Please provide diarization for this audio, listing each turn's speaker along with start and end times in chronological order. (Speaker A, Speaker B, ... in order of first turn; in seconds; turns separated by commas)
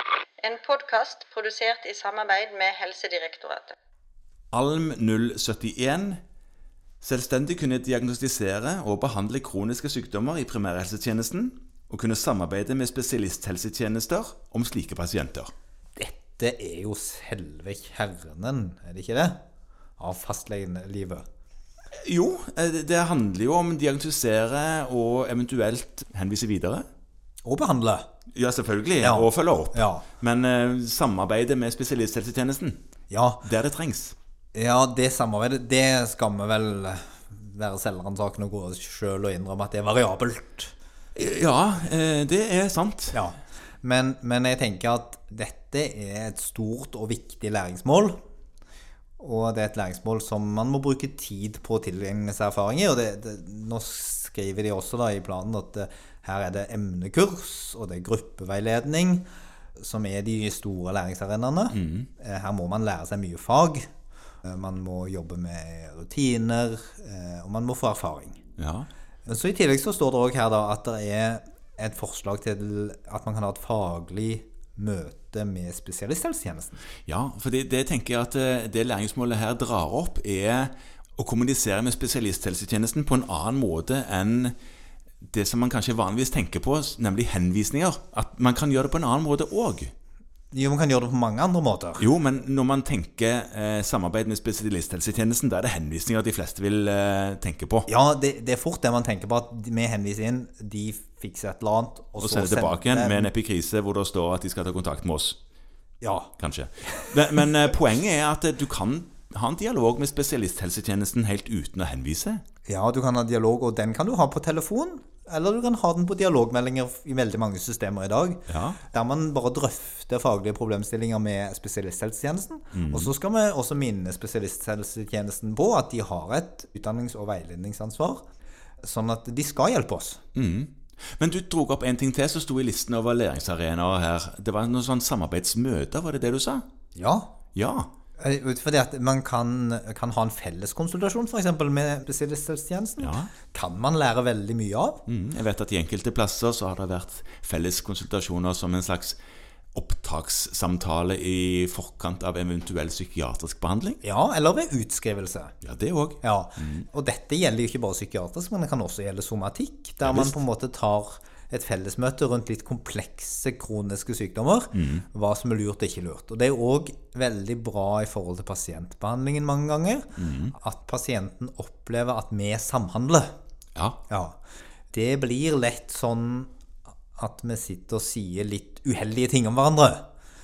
Speaker A: 0.4-3.8, Speaker B: 4.5-6.2, Speaker B: 7.0-15.5, Speaker C: 16.0-19.4, Speaker C: 20.0-21.2, Speaker B: 21.9-26.9, Speaker C: 27.4-28.1, Speaker B: 28.4-32.8, Speaker C: 29.0-30.1, Speaker C: 33.1-33.4, Speaker B: 33.4-34.2, Speaker C: 34.5-40.7, Speaker B: 41.1-43.2, Speaker C: 43.1-48.2, Speaker C: 49.2-59.3, Speaker C: 59.8-63.9, Speaker B: 61.7-62.1, Speaker C: 64.4-68.4, Speaker B: 68.6-68.9, Speaker C: 69.3-76.8, Speaker B: 77.1-84.5, Speaker B: 85.2-89.9, Speaker C: 90.5-92.1, Speaker B: 92.0-97.9, Speaker C: 97.9-103.3, Speaker B: 102.2-105.4, Speaker C: 106.0-106.3, Speaker B: 106.4-112.4, Speaker C: 106.9-107.1, Speaker C: 112.7-128.2, Speaker B: 118.5-118.8, Speaker B: 122.7-123.1, Speaker C: 128.8-130.2, Speaker B: 130.3-136.7, Speaker C: 136.9-137.3, Speaker B: 137.6-137.9, Speaker C: 138.2-145.0, Speaker B: 143.0-143.3, Speaker B: 145.1-149.2, Speaker B: 149.8-154.0, Speaker C: 154.0-155.5, Speaker B: 155.6-156.9, Speaker C: 156.2-173.3, Speaker B: 160.0-160.4, Speaker B: 164.7-165.1, Speaker B: 170.2-170.5, Speaker C: 174.1-174.4, Speaker C: 174.9-176.5, Speaker C: 177.2-180.1